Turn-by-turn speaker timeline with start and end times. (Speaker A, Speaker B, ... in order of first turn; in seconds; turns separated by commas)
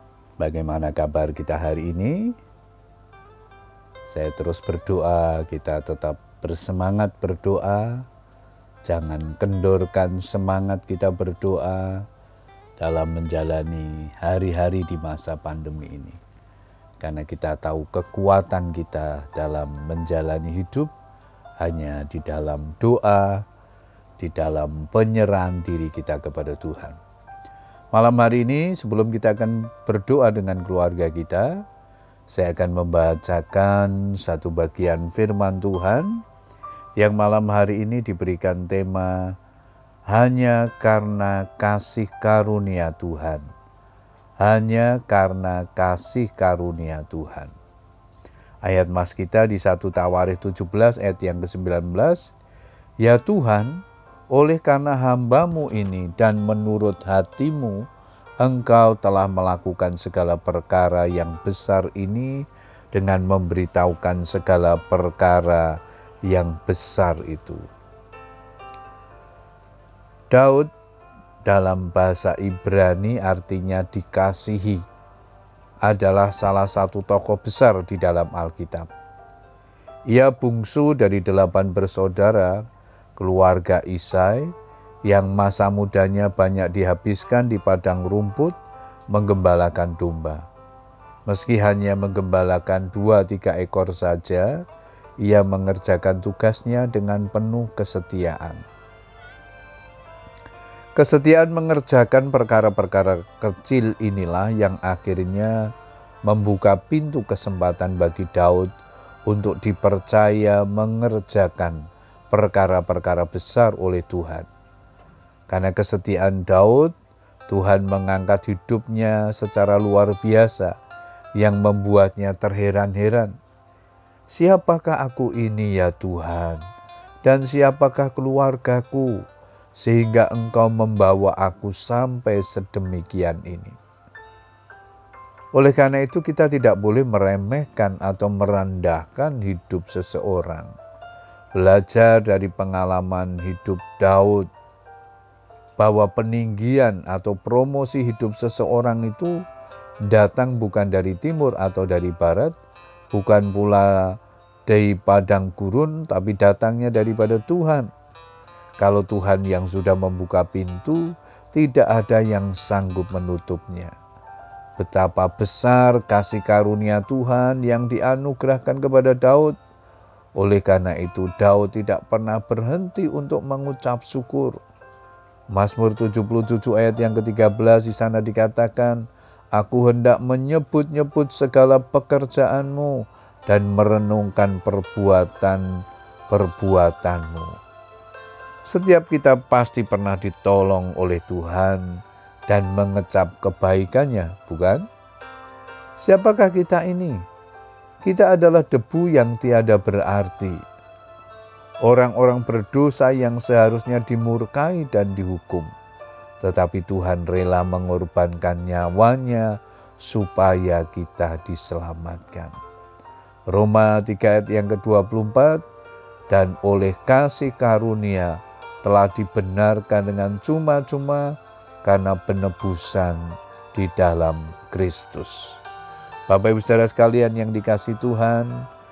Speaker A: 0.4-2.4, Speaker A: 4.1-8.1, Speaker A: 8.8-12.1, Speaker A: 12.8-16.2, Speaker A: 17.0-20.9, Speaker A: 21.6-23.4, Speaker A: 24.2-27.0, Speaker A: 27.9-31.6, Speaker A: 32.3-36.2, Speaker A: 37.0-39.4, Speaker A: 40.1-43.5, Speaker A: 44.4-47.5, Speaker A: 48.6-52.3, Speaker A: 53.0-57.9, Speaker A: 58.4-67.7, Speaker A: 70.3-70.7, Speaker A: 71.5-74.8, Speaker A: 75.8-78.9, Speaker A: 80.1-82.6, Speaker A: 83.2-84.5, Speaker A: 85.0-88.6, Speaker A: 89.1-90.5, Speaker A: 91.2-94.6, Speaker A: 95.2-98.6, Speaker A: 101.0-105.7, Speaker A: 106.2-108.7, Speaker A: 109.2-114.5, Speaker A: 115.5-116.9, Speaker A: 117.5-120.7, Speaker A: 121.4-123.3, Speaker A: 124.3-126.6, Speaker A: 127.2-129.2, Speaker A: 129.8-133.8, Speaker A: 135.5-140.7, Speaker A: 141.5-144.5, Speaker A: 145.8-149.4, Speaker A: 150.0-152.5, Speaker A: 153.1-157.9, Speaker A: 158.8-163.9, Speaker A: 164.8-169.5, Speaker A: 170.3-174.6, Speaker A: 175.5-187.6, Speaker A: 188.6-194.9, Speaker A: 196.0-197.2, Speaker A: 198.0-200.6, Speaker A: 201.8-205.7, Speaker A: 206.4-212.6, Speaker A: 213.5-215.6, Speaker A: 216.3-225.6, Speaker A: 226.3-228.7